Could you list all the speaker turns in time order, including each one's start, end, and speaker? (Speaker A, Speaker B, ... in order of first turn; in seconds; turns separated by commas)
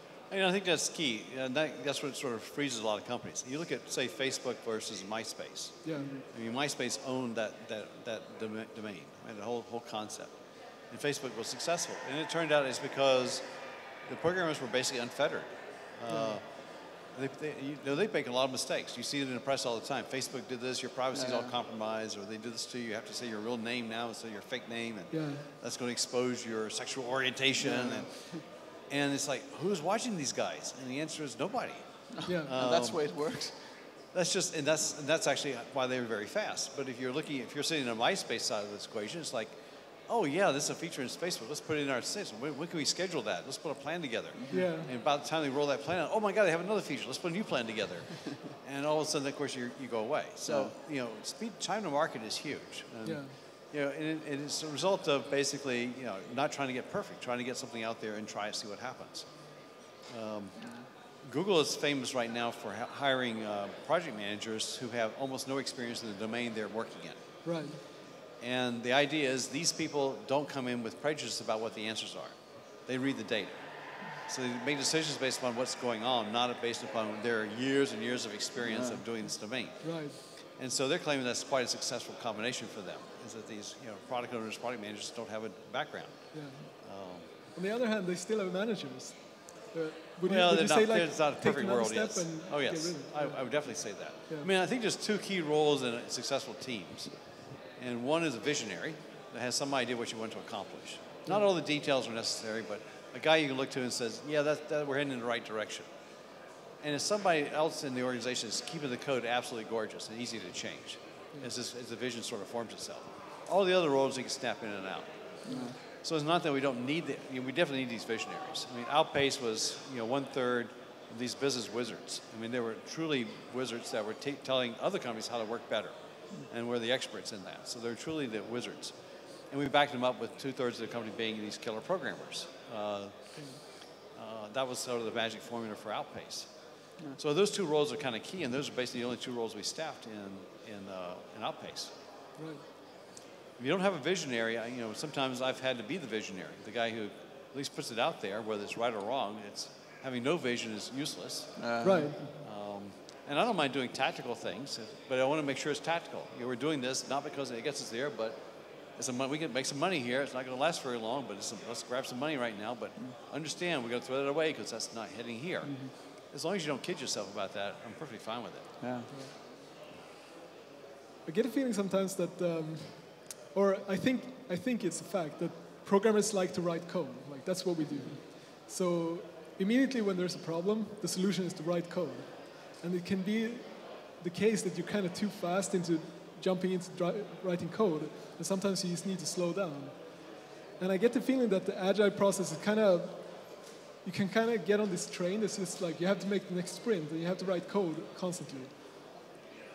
Speaker A: 0.3-10.3, Speaker B: 5.8-6.1, Speaker C: 5.9-6.2, Speaker A: 10.9-13.4, Speaker A: 14.1-16.4, Speaker B: 16.1-16.4, Speaker A: 17.1-33.0, Speaker C: 21.1-21.5, Speaker B: 25.1-25.4, Speaker C: 27.6-28.4, Speaker C: 32.2-33.5, Speaker B: 32.2-32.5, Speaker A: 34.1-39.5, Speaker A: 40.1-59.3, Speaker C: 44.4-44.7, Speaker B: 44.5-44.9, Speaker C: 50.5-50.7, Speaker B: 53.0-53.3, Speaker A: 60.1-60.6, Speaker A: 61.2-67.2, Speaker B: 67.4-67.8, Speaker A: 68.4-72.3, Speaker A: 72.9-73.5, Speaker A: 74.2-87.2, Speaker C: 78.6-79.0, Speaker B: 79.8-80.2, Speaker B: 86.3-86.7, Speaker B: 87.5-94.5, Speaker A: 90.2-105.8, Speaker A: 106.8-115.1, Speaker C: 115.4-115.8, Speaker A: 116.0-128.9, Speaker A: 129.5-133.1, Speaker B: 133.3-133.6, Speaker A: 134.2-136.5, Speaker A: 137.1-141.9, Speaker B: 142.4-142.6, Speaker A: 143.6-151.7, Speaker C: 151.6-152.3, Speaker B: 151.8-152.2, Speaker A: 152.4-158.4, Speaker A: 158.9-168.7, Speaker C: 165.6-165.9, Speaker C: 168.8-169.1, Speaker B: 171.2-190.2, Speaker B: 190.8-198.7